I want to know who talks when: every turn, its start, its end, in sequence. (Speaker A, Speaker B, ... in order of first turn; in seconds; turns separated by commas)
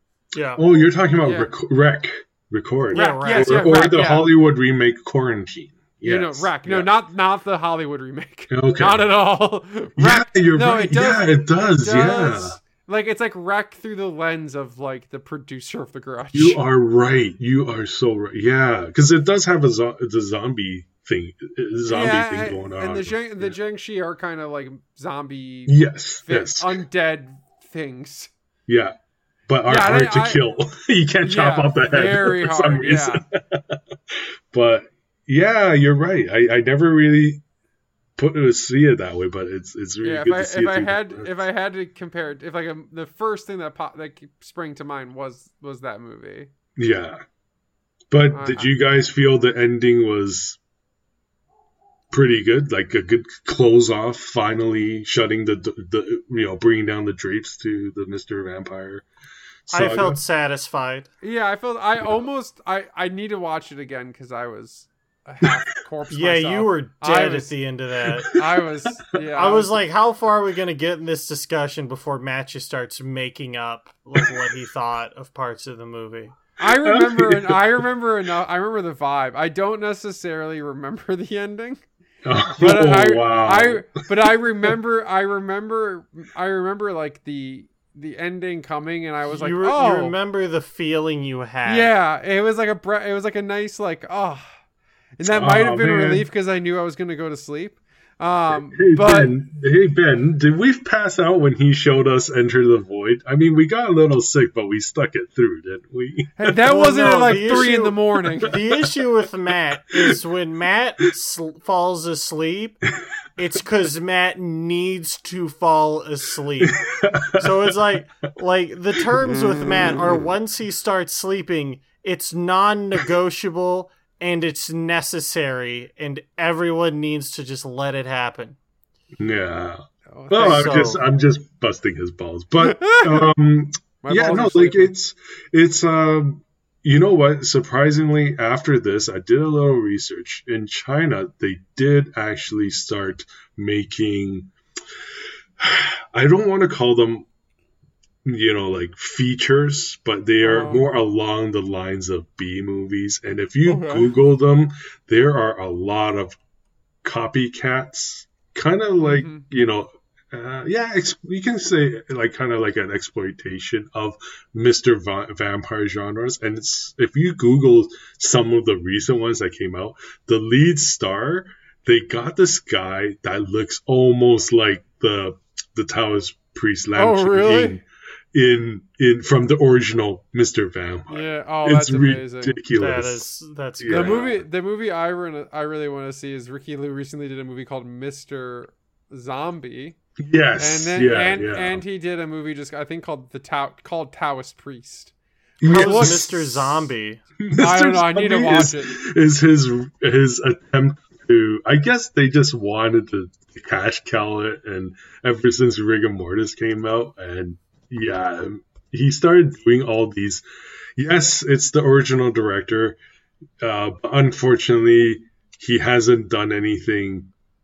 Speaker A: 0.3-0.6, Speaker B: 0.6-6.9, Speaker C: 1.2-1.5, Speaker C: 2.9-4.3, Speaker A: 2.9-3.8, Speaker C: 6.0-16.6, Speaker B: 8.5-9.1, Speaker B: 10.0-12.6, Speaker B: 16.3-23.6, Speaker C: 21.9-28.3, Speaker B: 25.7-26.8, Speaker B: 28.7-28.9, Speaker B: 29.5-37.4, Speaker C: 29.7-30.4, Speaker C: 31.2-33.2, Speaker B: 38.2-41.4, Speaker C: 40.0-46.5, Speaker B: 46.8-47.2, Speaker B: 48.1-50.6, Speaker C: 48.3-48.7, Speaker B: 52.1-59.1, Speaker B: 59.7-60.2, Speaker A: 59.7-61.1, Speaker C: 61.2-67.5, Speaker A: 66.1-68.3, Speaker C: 68.3-69.8, Speaker A: 69.3-76.4, Speaker C: 76.6-81.8, Speaker B: 76.6-77.6, Speaker B: 82.2-84.0, Speaker C: 82.6-90.2, Speaker A: 89.2-91.9, Speaker C: 91.7-94.5, Speaker C: 95.2-99.3, Speaker B: 95.2-96.3, Speaker B: 98.5-107.7, Speaker C: 106.4-108.6, Speaker A: 106.7-112.8, Speaker B: 108.2-108.5, Speaker A: 113.4-116.8, Speaker B: 116.6-117.8, Speaker A: 117.3-128.6, Speaker B: 119.1-120.0, Speaker B: 129.2-144.5, Speaker C: 130.1-130.7, Speaker A: 130.3-131.0, Speaker C: 132.6-133.3, Speaker C: 134.0-134.9, Speaker B: 145.6-147.3, Speaker B: 148.2-156.4, Speaker C: 150.4-150.9, Speaker C: 153.7-154.1, Speaker B: 157.0-183.2, Speaker C: 159.0-159.5, Speaker C: 177.0-177.8, Speaker C: 181.1-182.6, Speaker A: 182.8-184.4, Speaker B: 183.8-184.4, Speaker C: 183.9-190.0, Speaker B: 190.2-191.8, Speaker C: 190.6-195.1, Speaker B: 195.6-196.3, Speaker C: 195.6-196.9, Speaker A: 195.7-197.2, Speaker B: 197.4-210.4, Speaker C: 197.6-199.0, Speaker B: 211.0-213.0, Speaker B: 213.6-217.3